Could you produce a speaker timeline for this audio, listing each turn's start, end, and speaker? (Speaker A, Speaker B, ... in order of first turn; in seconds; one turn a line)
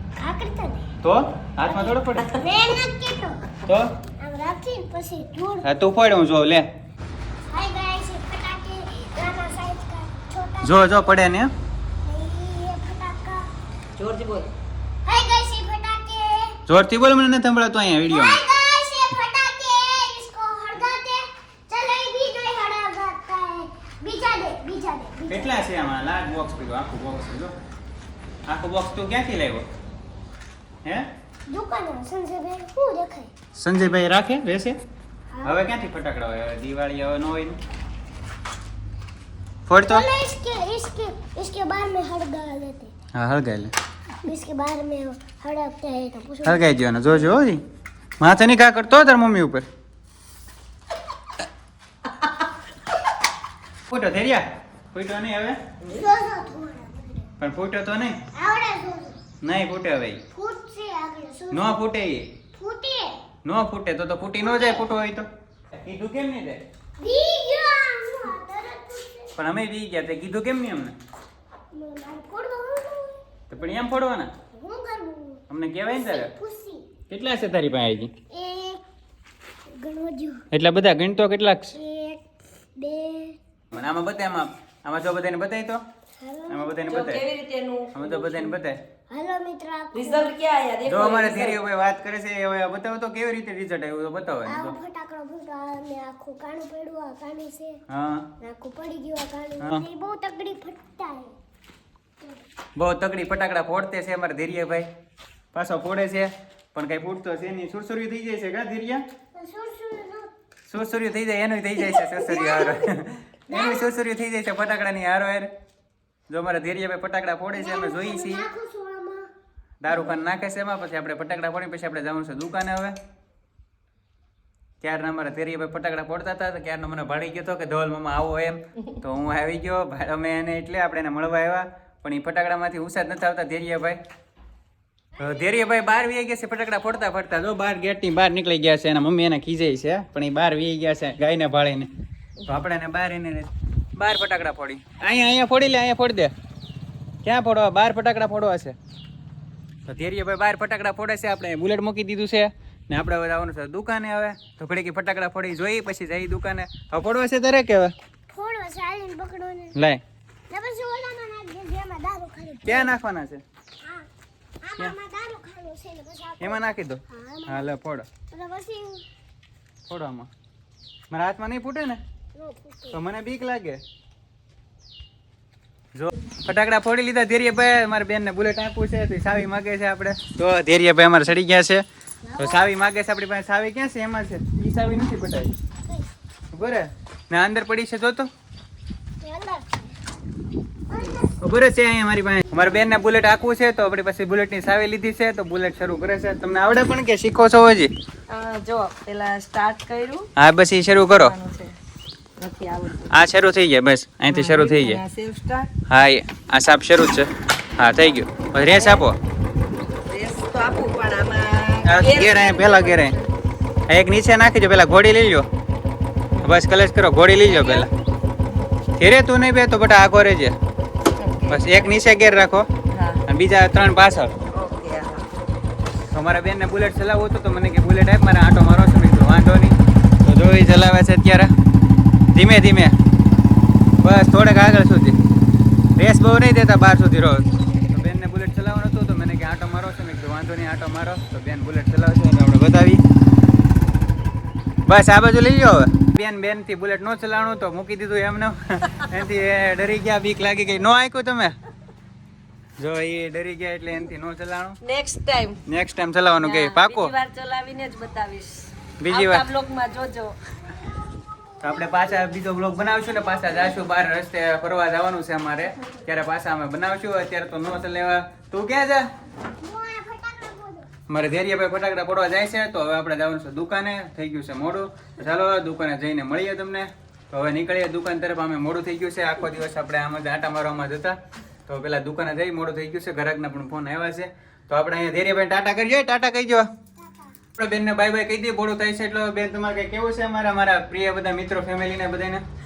Speaker A: 0.2-0.9
Speaker B: 1.0-2.3
Speaker A: 1.6-3.4
Speaker B: 3.6-3.9
Speaker A: 4.2-5.7
Speaker B: 5.6-6.7
Speaker A: 7.5-11.2
Speaker B: 10.6-11.5
Speaker A: 12.0-13.5
Speaker C: 14.0-14.5
Speaker A: 15.0-16.6
Speaker B: 16.7-18.4
Speaker A: 18.1-25.6
Speaker B: 25.3-27.5
Speaker B: 28.5-29.6
Speaker A: 31.5-33.3
Speaker B: 33.5-34.8
Speaker A: 35.3-35.6
Speaker B: 35.4-37.6
Speaker B: 39.7-40.1
Speaker A: 39.8-42.9
Speaker B: 43.1-43.7
Speaker A: 44.2-46.6
Speaker B: 46.4-47.6
Speaker B: 48.2-49.6
Speaker B: 53.9-55.6
Speaker A: 55.9-57.2
Speaker B: 57.4-58.2
Speaker A: 58.3-59.2
Speaker B: 59.4-60.2
Speaker A: 60.3-61.7
Speaker B: 61.5-62.3
Speaker A: 62.5-63.2
Speaker B: 63.4-65.2
Speaker A: 64.4-64.8
Speaker B: 65.8-66.6
Speaker A: 67.0-69.4
Speaker B: 69.4-70.9
Speaker A: 71.7-73.2
Speaker B: 73.5-74.3
Speaker A: 74.5-76.8
Speaker B: 75.5-76.3
Speaker B: 77.1-78.1
Speaker A: 78.3-78.8
Speaker A: 79.8-80.4
Speaker B: 80.5-81.7
Speaker A: 81.7-82.2
Speaker A: 82.8-83.4
Speaker B: 83.7-85.8
Speaker A: 86.2-86.8
Speaker B: 86.5-87.2
Speaker C: 86.8-88.5
Speaker B: 87.9-88.8
Speaker A: 89.1-90.3
Speaker C: 89.9-91.6
Speaker B: 90.8-94.7
Speaker A: 94.5-97.8
Speaker B: 97.9-98.3
Speaker A: 98.4-101.3
Speaker B: 102.8-104.9
Speaker B: 105.5-109.0
Speaker A: 109.3-110.3
Speaker B: 110.7-115.5
Speaker A: 111.8-112.8
Speaker A: 113.5-114.0
Speaker B: 116.3-118.5
Speaker A: 117.5-119.3
Speaker B: 119.8-123.0
Speaker B: 124.8-134.0
Speaker B: 135.2-141.9
Speaker B: 142.4-146.3
Speaker B: 147.2-148.8
Speaker B: 149.9-157.9
Speaker A: 158.3-159.8
Speaker B: 159.8-160.0
Speaker A: 160.5-162.9
Speaker B: 162.6-163.4
Speaker A: 164.6-167.7
Speaker B: 166.4-168.1
Speaker A: 168.3-169.0
Speaker B: 169.9-170.3
Speaker B: 171.1-172.0
Speaker A: 172.3-173.0
Speaker B: 172.9-173.8
Speaker B: 175.9-181.8
Speaker A: 182.2-182.7
Speaker B: 182.4-185.5
Speaker B: 186.5-188.3
Speaker A: 189.2-189.9
Speaker A: 190.9-191.4
Speaker B: 191.4-197.9
Speaker C: 198.3-200.3
Speaker B: 200.3-201.3
Speaker C: 201.1-201.7
Speaker C: 202.4-203.1
Speaker B: 203.1-205.0
Speaker C: 204.3-205.7
Speaker B: 205.9-209.2
Speaker C: 208.6-209.0
Speaker C: 210.1-213.3
Speaker B: 211.8-213.2
Speaker B: 213.9-215.5
Speaker B: 216.4-217.9
Speaker C: 217.4-217.8
Speaker B: 219.0-220.5
Speaker C: 221.2-221.8
Speaker B: 221.5-222.7
Speaker C: 222.9-223.2
Speaker B: 223.3-224.3
Speaker C: 224.5-225.2
Speaker B: 226.1-231.5
Speaker B: 232.3-232.9
Speaker B: 234.0-235.2
Speaker B: 235.9-243.0
Speaker B: 244.9-251.5
Speaker B: 252.8-254.8
Speaker C: 254.8-255.6
Speaker B: 255.7-257.1
Speaker C: 256.4-260.4
Speaker B: 259.0-259.4
Speaker A: 260.8-262.3
Speaker B: 261.6-269.1
Speaker A: 262.8-263.7
Speaker A: 269.6-270.9
Speaker B: 271.1-286.6
Speaker A: 287.0-287.3
Speaker B: 287.6-292.4